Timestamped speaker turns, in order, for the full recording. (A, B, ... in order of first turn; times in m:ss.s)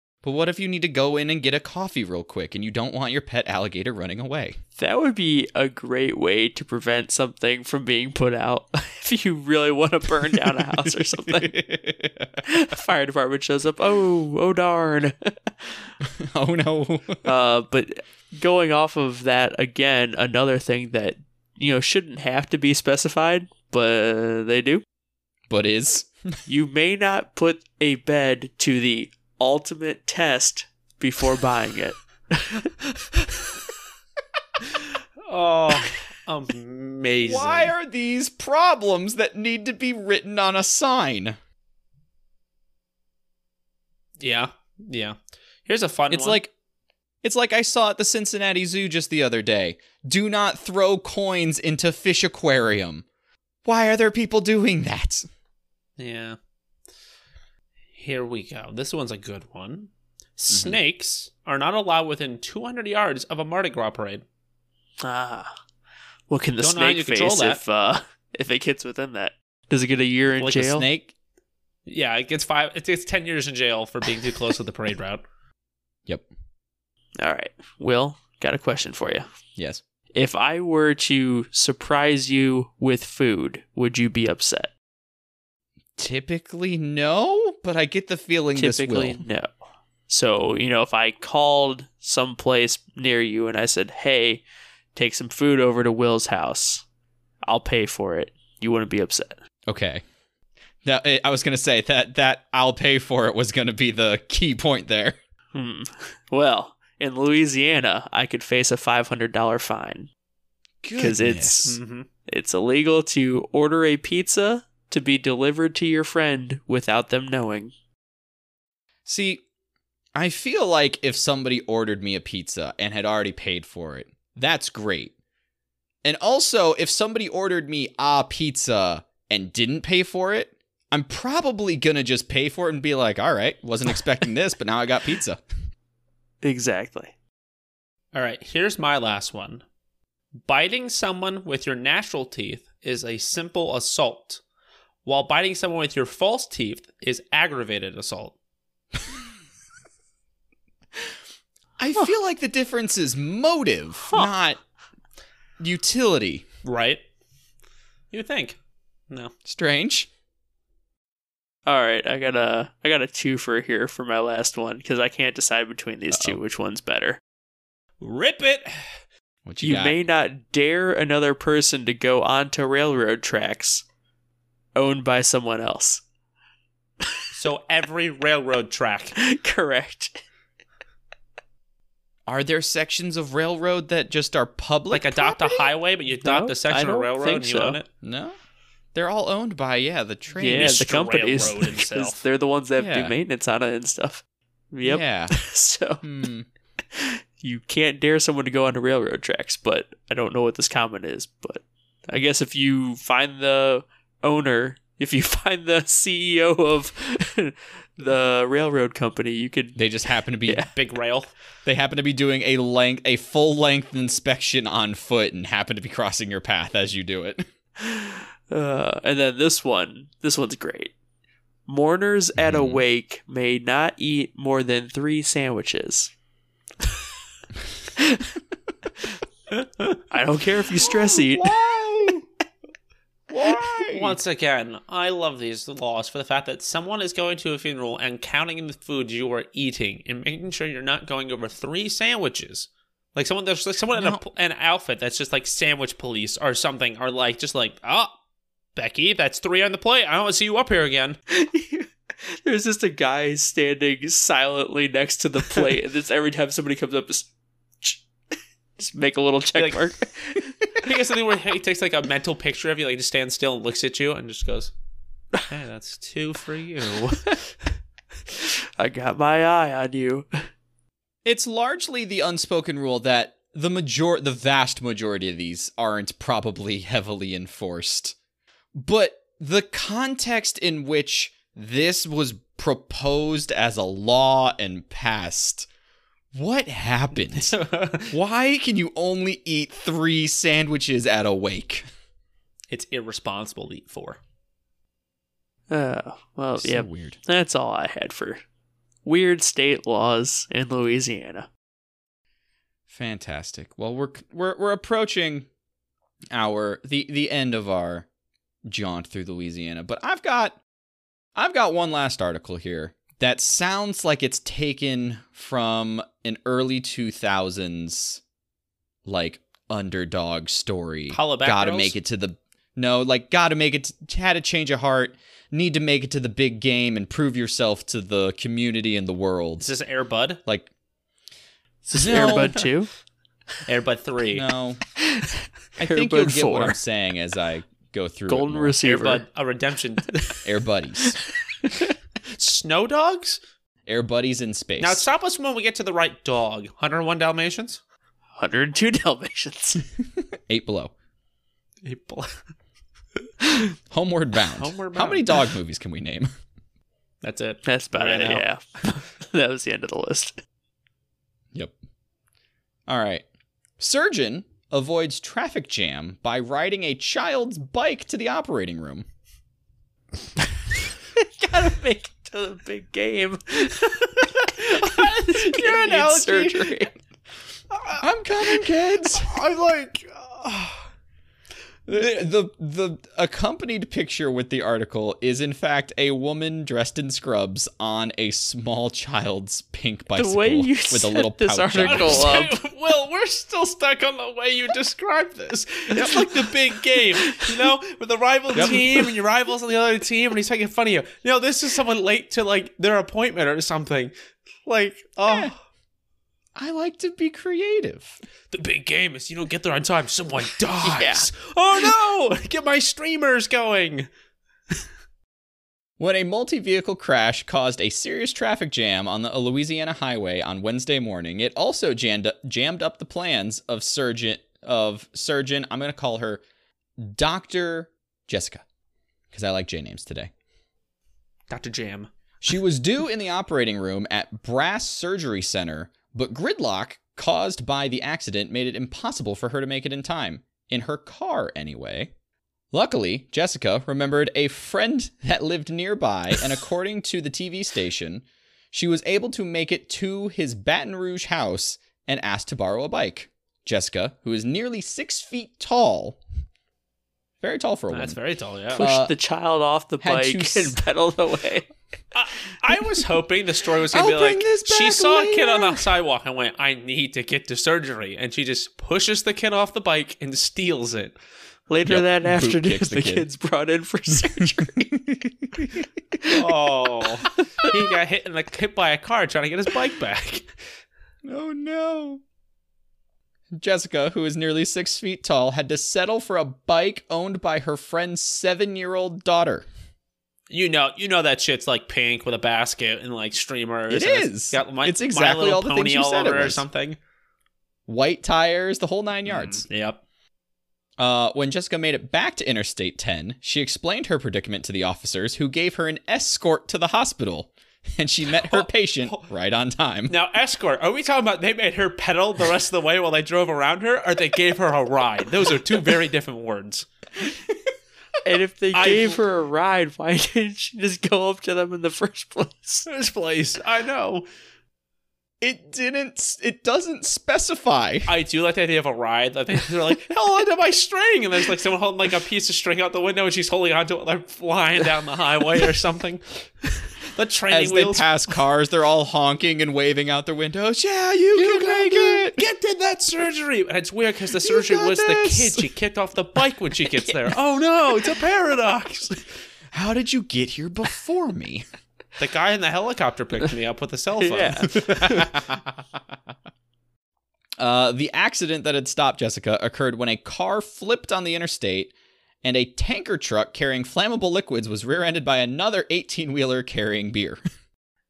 0:00.2-0:04.6 A
0:04.8-0:11.6 B
0:10.7-0:12.4 A
0:12.4-0:15.9 B
0:16.0-0:17.2 A
0:17.2-0:24.8 B
0:25.5-0:26.1 A
0:26.5-0:32.7 B
0:35.3-0:37.7 C
0:37.2-0:41.4 A
0:44.2-0:46.4 C
0:46.1-0:46.5 A
0:47.2-0:53.0 A
0:53.6-0:55.2 A
0:56.0-0:56.4 C
0:58.0-1:04.2 C
1:00.5-1:00.8 A
1:05.0-1:05.5 B
1:06.3-1:10.9 B
1:06.6-1:07.6 C
1:10.4-1:11.1 A
1:11.9-1:15.2 C
1:17.2-1:19.3 B
1:20.1-1:24.7 B
1:26.0-1:29.2 A
1:28.6-1:29.5 B
1:30.1-1:34.4 B
1:35.0-1:36.8 B
1:37.4-1:39.4 B
1:39.7-1:40.0 A
1:40.8-1:45.2 A
1:45.5-1:50.1 B
1:50.8-1:51.8 A
1:51.0-1:57.7 B
1:51.7-1:52.1 C
1:59.1-1:59.4 A
2:00.2-2:05.1 A
2:06.0-2:15.4 A
2:16.4-2:17.1 B
2:18.1-2:19.6 C
2:20.5-2:24.4 C
2:25.0-2:28.4 C
2:31.8-2:34.6 A
2:35.6-2:36.4 A
2:36.6-2:37.0 C
2:38.1-2:38.6 C
2:39.5-2:40.1 A
2:41.7-2:47.2 B
2:46.1-2:46.4 A
2:48.0-2:48.7 C
2:49.4-2:50.0 A
2:49.6-2:53.8 B
2:54.8-2:56.0 B
2:57.4-2:59.2 C
2:59.2-3:00.2 B
3:02.3-3:05.7 A
3:04.9-3:07.9 C
3:06.2-3:07.8 B
3:08.0-3:08.4 A
3:08.9-3:10.9 A
3:10.4-3:16.0 B
3:10.4-3:12.2 C
3:12.8-3:13.1 A
3:14.8-3:15.4 A
3:16.0-3:16.5 A
3:16.9-3:29.8 B
3:29.8-3:30.7 A
3:30.4-3:30.7 B
3:30.7-3:31.3 C
3:31.6-3:37.4 A
3:37.8-3:40.9 B
3:41.7-3:46.1 B
3:42.4-3:42.8 A
3:48.0-3:48.3 B
3:50.1-3:51.5 B
3:50.8-3:52.2 A
3:53.3-3:54.2 A
3:53.6-4:08.2 C
4:04.0-4:04.2 A
4:08.8-4:11.2 C
4:11.3-4:17.3 B
4:18.8-4:20.6 B
4:19.6-4:19.8 C
4:20.7-4:24.7 C
4:25.5-4:27.4 C
4:27.1-4:27.4 B
4:28.4-4:30.3 B
4:31.2-4:38.2 A
4:38.8-4:45.7 A
4:46.3-4:47.6 A
4:47.2-4:48.1 C
4:48.1-4:51.8 A
4:52.7-4:54.2 C
4:55.7-4:58.4 B
4:56.6-4:57.2 A
4:59.0-5:01.5 B
5:02.9-5:05.5 A
5:06.3-5:08.1 A
5:08.7-5:10.6 A
5:11.4-5:18.2 A
5:19.1-5:29.7 A
5:21.1-5:22.0 C
5:29.6-5:30.4 C
5:31.8-5:32.9 B
5:31.9-5:32.7 A
5:33.7-5:34.4 C
5:34.3-5:34.8 A
5:35.8-5:38.8 A
5:35.8-5:36.8 B
5:38.3-5:39.2 B
5:38.8-5:40.4 C
5:40.4-5:41.2 A
5:41.0-5:41.9 B
5:42.3-5:43.4 C
5:43.9-5:45.1 A
5:44.8-5:47.8 C
5:48.4-5:49.8 B
5:50.3-5:50.9 A
5:51.8-5:52.4 C
5:53.9-5:56.3 A
5:54.5-5:55.4 C
5:57.2-5:58.4 C
5:57.6-6:00.4 B
6:02.9-6:03.2 A
6:03.8-6:09.1 A
6:11.2-6:16.9 B
6:14.4-6:16.7 C
6:17.7-6:18.0 C
6:18.0-6:19.3 A
6:19.2-6:20.9 C
6:21.9-6:32.5 A
6:30.1-6:32.6 B
6:31.8-6:44.1 C
6:36.0-6:36.5 B
6:37.2-6:37.5 B
6:38.5-6:38.8 A
6:38.6-6:39.0 B
6:44.7-6:45.6 C
6:45.3-6:45.5 A
6:46.6-6:48.2 A
6:48.5-6:54.1 C
6:50.8-6:51.3 B
6:56.0-7:06.4 A
7:07.0-7:08.6 A
7:09.3-7:10.3 A
7:11.5-7:12.1 C
7:12.4-7:22.1 A
7:22.7-7:36.2 A
7:37.4-7:38.2 A
7:37.9-7:38.9 C
7:38.8-7:39.1 A
7:38.8-7:41.7 B
7:40.0-7:40.8 A
7:42.1-7:51.2 C
7:43.9-7:45.9 A
7:51.7-7:54.9 B
7:51.9-7:53.3 A
7:54.2-7:55.8 A
7:56.3-8:00.5 C
7:57.2-7:57.7 B
8:01.2-8:02.2 A
8:03.5-8:09.7 A
8:10.5-8:17.0 C
8:13.9-8:16.6 A
8:17.9-8:19.7 A
8:19.3-8:20.0 C
8:21.0-8:30.2 A
8:28.4-8:29.2 C
8:30.1-8:36.9 C
8:38.2-8:42.9 B
8:38.7-8:39.2 C
8:42.9-8:44.3 C
8:45.4-8:48.1 A
8:48.1-8:58.1 C
8:57.5-9:02.4 A
9:01.3-9:09.3 C
9:04.4-9:05.7 A
9:09.7-9:11.6 A
9:12.2-9:15.6 C
9:14.2-9:15.1 B
9:14.8-9:15.2 A
9:17.6-9:27.4 A